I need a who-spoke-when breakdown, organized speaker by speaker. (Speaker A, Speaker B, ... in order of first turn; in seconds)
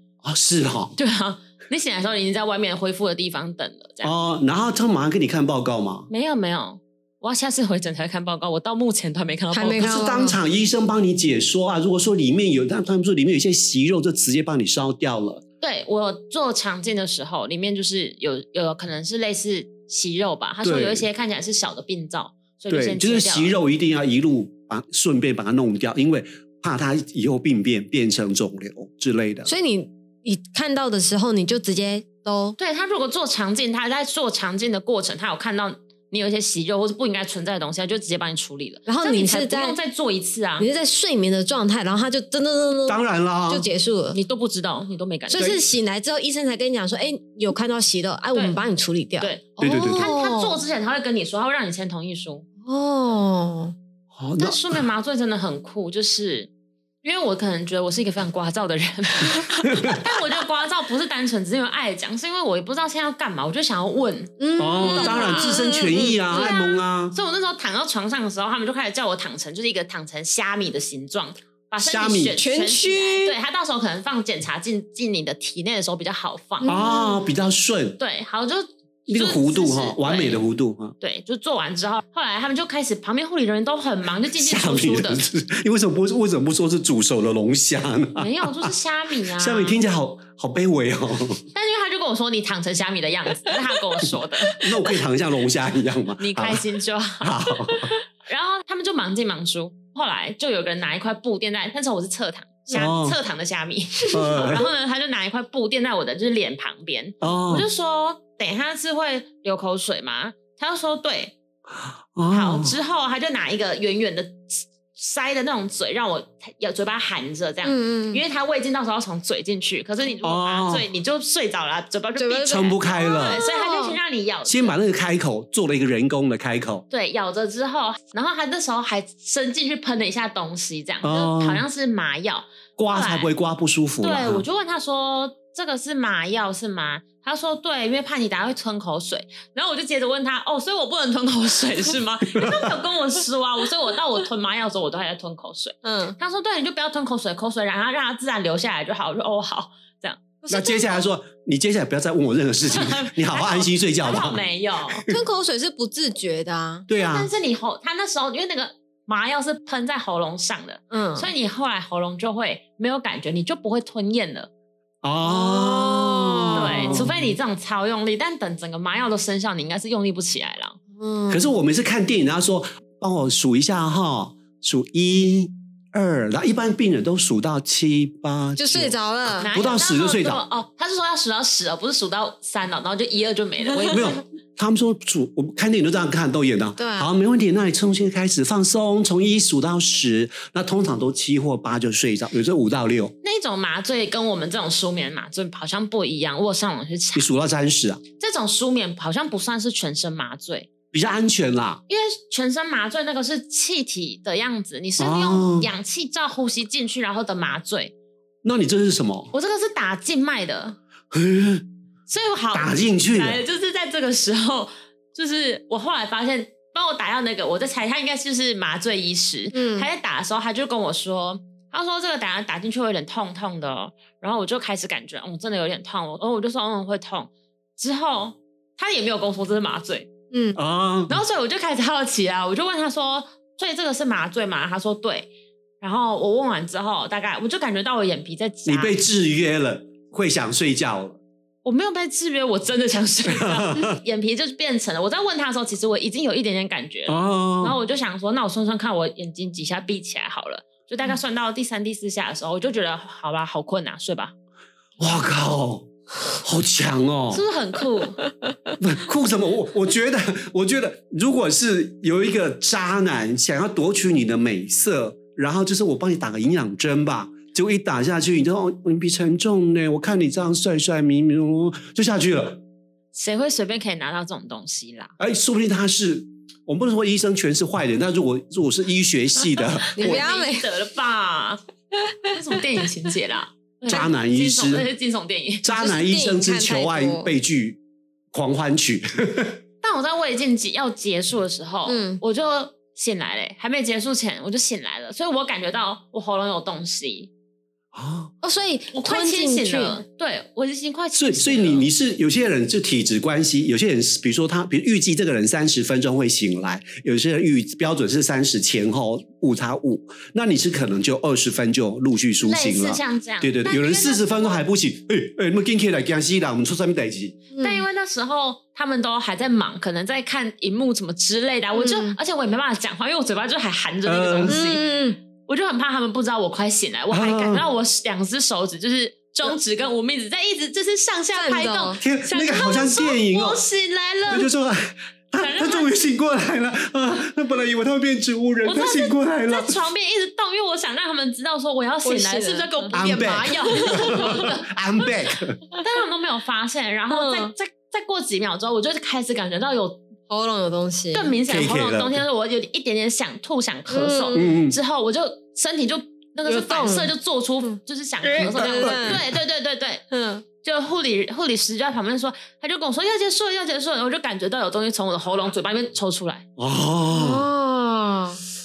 Speaker A: 0.2-0.9, 4.0-6.1, 9.8-15.4, 20.6-21.1, 22.7-29.5, 42.9-43.7, 45.3-45.6, 49.6-50.1, 54.1-54.8, 59.6-60.0, 64.6-67.2, 71.8-72.4, 76.7-78.0, 79.1-81.0, 84.4-88.7, 89.4-91.4, 94.6-96.6, 97.2-98.0, 102.7-103.2, 104.1-104.7, 107.2-107.7, 112.2-112.8, 120.2-120.9, 122.5-123.4, 124.5-126.8, 131.0-131.7, 132.8-134.4, 142.3-142.8, 150.5-154.4, 156.9-157.3, 165.0-167.2, 171.3-180.4, 183.9-193.1, 197.2-198.0, 200.9-201.8, 205.0-205.7, 208.4-209.3, 211.1-211.7, 212.5-213.4, 230.6-231.2, 238.7-241.2, 243.3-244.0, 247.1-247.8, 255.0-257.4, 258.8-272.6, 275.2-280.3, 283.9-284.9, 285.6-287.8, 288.3-289.6, 297.9-298.3, 301.1-317.5, 324.1-324.6, 327.1-327.6, 332.0-333.6, 334.3-339.8, 342.9-345.6, 351.4-352.2, 354.3-354.8, 358.7-359.2, 366.6-367.5
Speaker B: 1.0-4.1, 6.1-10.1, 15.6-23.6, 32.6-40.7, 44.1-45.6, 48.3-48.6, 49.2-52.5, 54.4-56.5, 57.0-65.6, 66.3-76.7, 78.0-80.5, 81.0-85.2, 88.2-89.8, 91.5-94.7, 96.2-111.4, 112.3-124.8, 126.9-133.3, 134.0-150.2, 152.7-155.1, 156.9-164.5, 166.5-170.8, 179.4-184.2, 193.2-197.3, 198.2-200.7, 201.9-207.9, 209.3-210.8, 212.1-230.1, 231.1-239.0, 241.6-254.3, 257.3-258.3, 273.1-275.1, 280.0-281.6, 282.3-285.8, 289.8-297.3, 298.9-301.9, 312.4-314.7, 317.6-324.9, 325.5-334.5, 335.4-336.0, 338.6-344.7, 345.8-350.0, 351.1-360.0, 360.6-366.4
Speaker C: 9.5-10.4, 29.4-32.6, 38.9-39.8, 40.6-44.2, 45.3-50.6, 52.6-53.8, 64.4-66.5, 72.3-73.4, 76.6-77.3, 117.6-118.2, 122.2-124.0, 145.8-146.2, 150.4-151.1, 155.1-156.9, 160.9-161.3, 165.2-167.1, 171.0-171.5, 178.6-179.5, 186.8-187.1, 219.5-219.9, 230.3-230.6, 279.9-280.7, 285.8-287.4, 291.9-292.2, 298.4-300.0, 317.5-317.9, 321.7-322.2, 324.5-325.2, 331.3-332.0, 342.0-344.4, 347.1-347.5, 350.3-351.4, 353.9-354.4, 356.4-359.2, 360.1-360.4, 367.1-368.4